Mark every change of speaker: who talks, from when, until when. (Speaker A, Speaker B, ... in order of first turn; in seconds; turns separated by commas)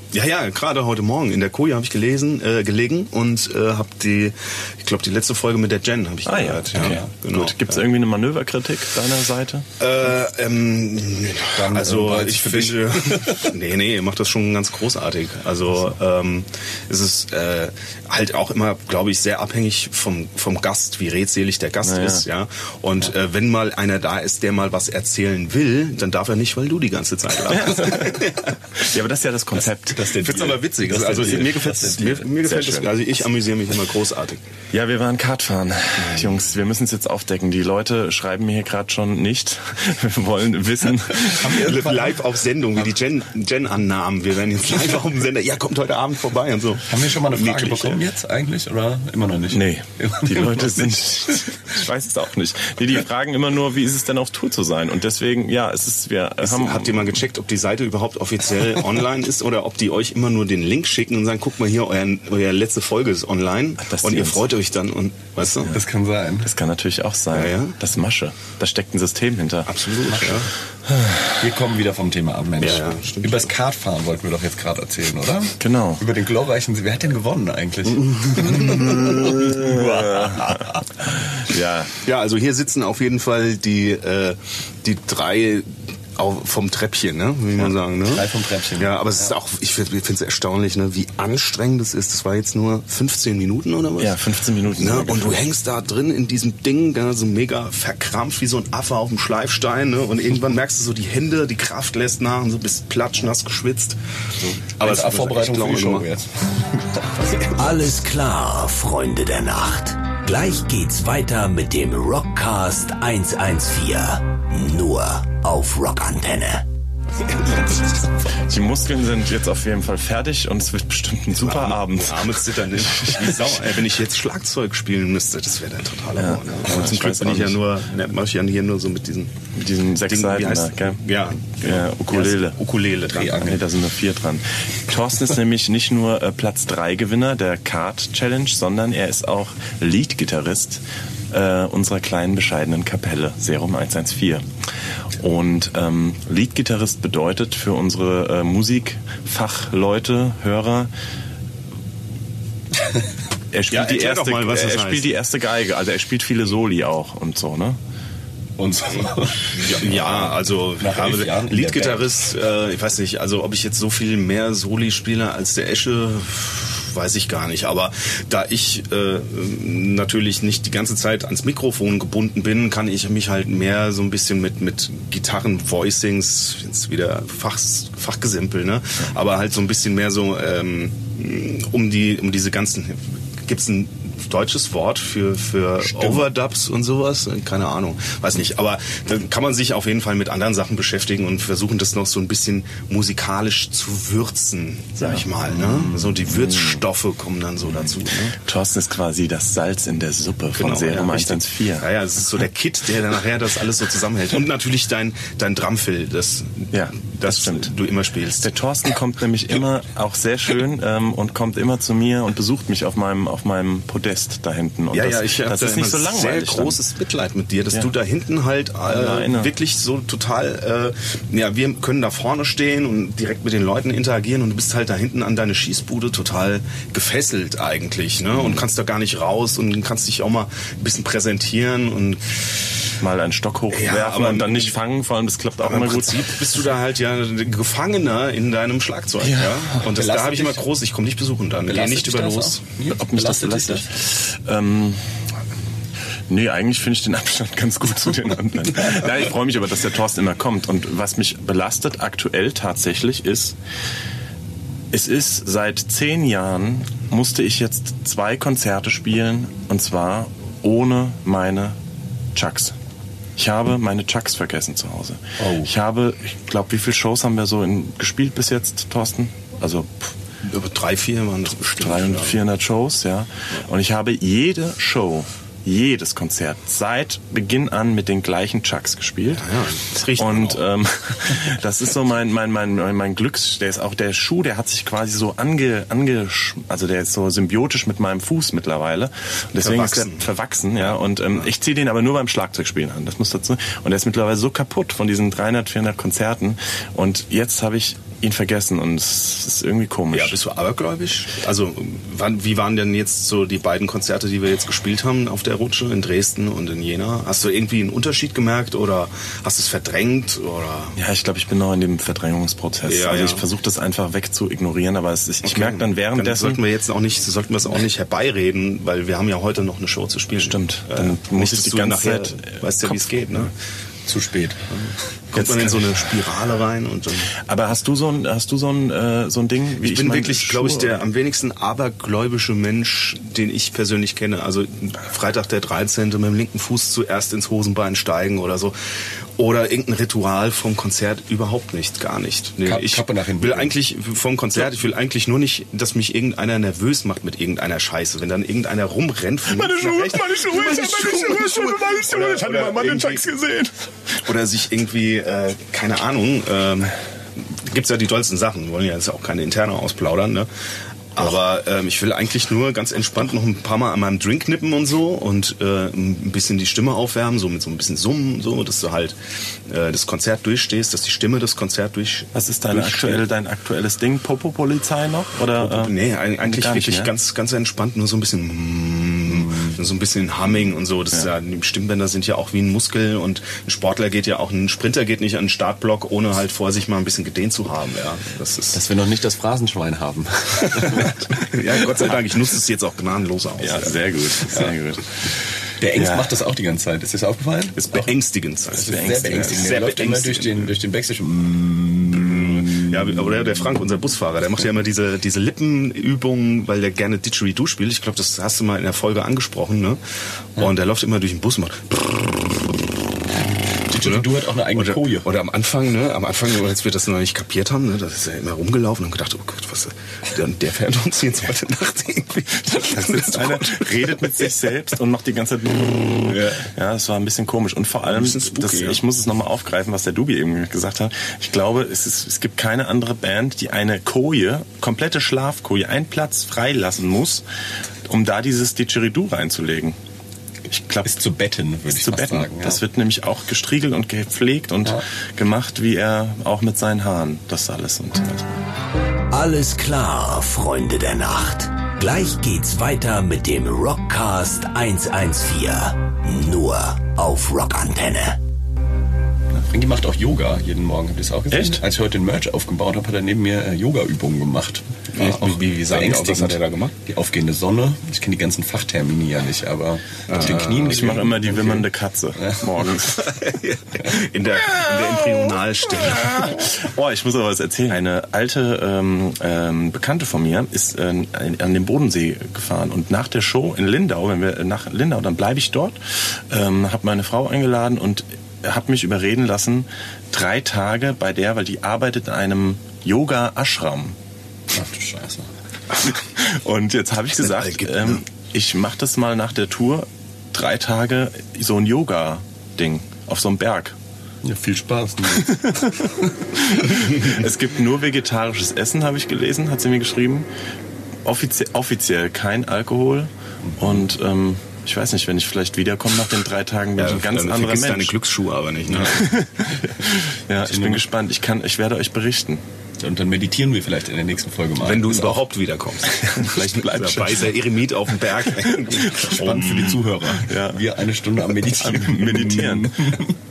Speaker A: 0.1-7.8, Speaker B: 6.3-9.7, Speaker C: 6.8-7.0, Speaker A: 9.8-28.8, Speaker C: 11.5-13.5, Speaker B: 21.8-22.2, Speaker B: 27.5-30.1, Speaker C: 29.9-32.2, Speaker A: 30.1-34.4, Speaker B: 31.9-33.1, Speaker B: 34.7-41.6, Speaker A: 36.0-36.4, Speaker C: 41.2-42.2, Speaker A: 41.4-48.0, Speaker C: 46.9-51.5, Speaker B: 49.5-57.2, Speaker A: 56.4-65.8, Speaker B: 63.8-64.5, Speaker C: 65.7-66.5, Speaker B: 66.4-69.7, Speaker A: 67.3-67.8, Speaker A: 69.7-70.5, Speaker C: 70.1-70.5, Speaker B: 70.9-71.4, Speaker C: 71.4-80.8, Speaker A: 72.6-73.5, Speaker B: 75.6-76.0, Speaker B: 78.4-81.9, Speaker A: 82.0-94.2, Speaker C: 88.0-89.3, Speaker B: 94.0-95.5, Speaker A: 94.8-106.1, Speaker C: 104.8-107.9, Speaker D: 107.5-116.7, Speaker B: 118.4-123.7, Speaker A: 121.4-129.4, Speaker B: 126.2-127.6, Speaker B: 129.6-131.0, Speaker A: 130.1-133.6, Speaker B: 131.6-132.6, Speaker C: 133.1-133.6, Speaker B: 133.4-144.4, Speaker B: 145.2-150.9, Speaker B: 153.5-157.8, Speaker A: 153.7-155.1, Speaker C: 158.6-160.2, Speaker A: 159.5-198.4, Speaker B: 160.0-160.3, Speaker C: 160.8-162.1, Speaker C: 185.8-186.3, Speaker B: 195.0-195.3, Speaker C: 195.6-196.2, Speaker B: 196.5-196.8, Speaker B: 197.8-201.9, Speaker A: 200.6-208.5, Speaker B: 206.7-207.7, Speaker B: 208.4-216.8, Speaker A: 214.9-232.4, Speaker B: 218.9-219.5, Speaker B: 233.0-236.4, Speaker A: 233.7-234.8, Speaker A: 235.6-242.6, Speaker B: 239.2-239.8, Speaker C: 239.8-240.7, Speaker C: 241.7-243.9, Speaker B: 242.9-245.0, Speaker B: 246.3-253.6, Speaker B: 254.9-261.8, Speaker B: 262.4-262.8, Speaker B: 263.4-270.1, Speaker A: 270.4-272.4, Speaker B: 271.8-279.5, Speaker A: 279.3-280.6, Speaker B: 280.1-300.4, Speaker A: 289.6-290.3, Speaker A: 300.1-311.0, Speaker B: 311.0-316.6, Speaker A: 312.9-313.5, Speaker A: 315.4-323.5, Speaker B: 320.4-323.5, Speaker C: 324.1-324.7, Speaker A: 325.3-327.3, Speaker B: 325.3-326.0, Speaker B: 327.4-331.0, Speaker A: 329.8-338.8, Speaker A: 339.4-353.2, Speaker C: 342.6-343.8, Speaker B: 349.5-353.7, Speaker A: 354.2-360.5, Speaker A: 361.1-373.2, Speaker B: 372.3-377.1, Speaker A: 375.6-388.8, Speaker C: 379.3-379.8, Speaker C: 388.7-391.9, Speaker A: 390.8-394.0, Speaker B: 393.6-395.1, Speaker C: 395.8-398.1, Speaker B: 395.9-396.3, Speaker A: 397.8-400.7, Speaker C: 398.7-403.4, Speaker B: 398.9-399.5, Speaker A: 402.1-410.0, Speaker A: 410.6-412.8, Speaker C: 413.9-415.3, Speaker A: 413.9-424.6, Speaker B: 423.1-437.4, Speaker A: 428.1-429.0, Speaker B: 438.1-440.0, Speaker B: 440.7-441.1, Speaker C: 441.1-442.8, Speaker B: 442.0-448.6, Speaker D: 449.3-458.4, Speaker C: 459.5-473.0, Speaker B: 461.5-461.8, Speaker A: 465.1-466.9, Speaker A: 470.3-471.2, Speaker B: 470.4-473.3, Speaker A: 473.2-476.7, Speaker B: 474.7-494.2, Speaker C: 494.7-495.5, Speaker B: 496.0-504.0, Speaker A: 497.4-498.2, Speaker C: 504.4-506.1, Speaker B: 505.5-506.0, Speaker B: 506.5-510.5, Speaker B: 511.2-518.1, Speaker C: 513.6-514.0, Speaker A: 517.0-519.4, Speaker B: 518.9-522.6, Speaker C: 520.7-521.0, Speaker C: 523.0-525.4, Speaker A: 524.8-530.2, Speaker C: 529.0-533.4, Speaker B: 530.4-530.9, Speaker B: 531.7-533.2